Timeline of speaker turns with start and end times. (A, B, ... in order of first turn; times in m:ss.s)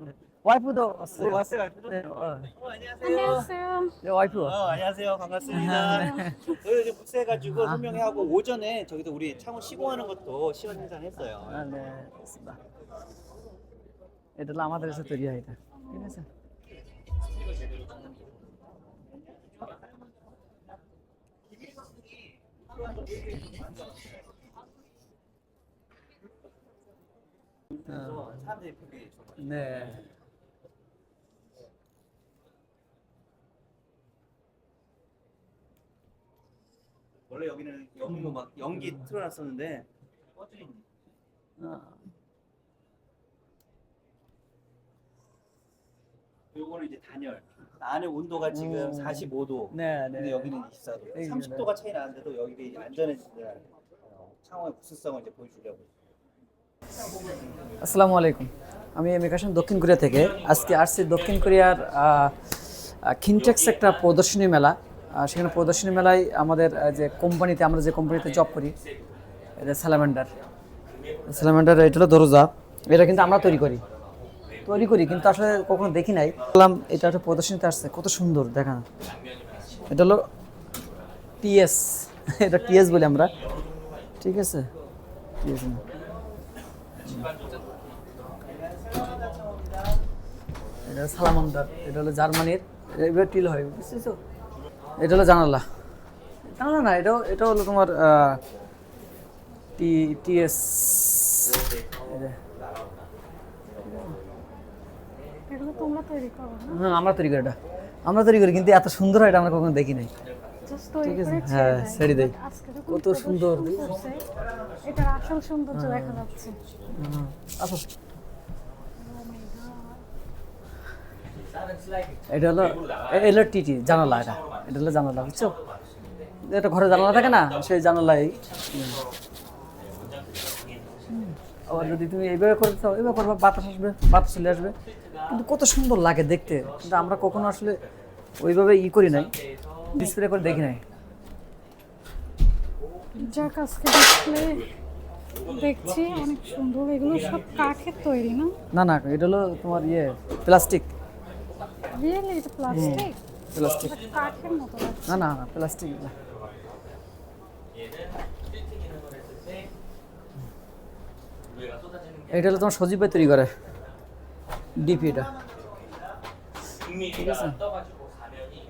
0:00.4-0:02.5 A
0:01.2-0:03.5 B
0:03.0-0:04.0 C
0:04.0-0:04.8 A
0:04.3-0:11.7 B
0:05.5-0:06.3 C
0:05.5-0:06.4 A
0:07.5-0:08.0 A
0:11.4-0:12.6 A
0:14.4-0:16.2 A
0:27.7-0:29.9 B
0:27.9-0:28.2 A
0:29.4-0:30.0 A
0:37.3-0:40.8 B
0:41.6-0:42.0 A
0:46.5-0:55.9 B
0:48.5-0:50.5 A
0:51.1-0:51.7 A
0:57.8-1:08.8 A
1:09.6-1:10.3 A
1:11.3-1:13.8 A
1:14.6-1:18.8 A
1:19.9-1:20.2 A
1:21.4-1:23.3 A
1:24.2-1:24.7 A
1:25.4-1:25.8 A
1:27.0-1:27.3 A
1:28.4-1:29.8 B
1:30.8-1:34.2 A
1:35.0-1:35.6 A
1:36.4-1:38.4 A
1:39.8-1:42.4 A
1:43.8-1:44.1 A
1:45.5-1:46.8 C
1:46.7-1:50.1 A
1:50.6-1:54.2 C
1:51.0-1:52.3 A
1:52.9-1:54.0 A
1:54.8-1:56.6 C
1:55.7-1:56.2 A
1:56.9-1:57.9 A
1:59.0-2:00.0 C
2:02.3-2:05.6 A
2:06.4-2:09.0 A
2:11.1-2:14.8 A
2:15.3-2:17.8 A
2:18.4-2:19.3 A
2:19.9-2:20.8 A
2:23.2-2:24.7 C
2:25.4-2:28.5 C
2:28.7-2:30.9 A
2:31.9-2:33.2 C
2:32.7-2:34.0 A
2:33.7-2:35.3 C
2:35.0-2:36.1 A
2:42.3-2:43.5 A
2:44.8-2:45.3 A
2:47.0-2:47.6 A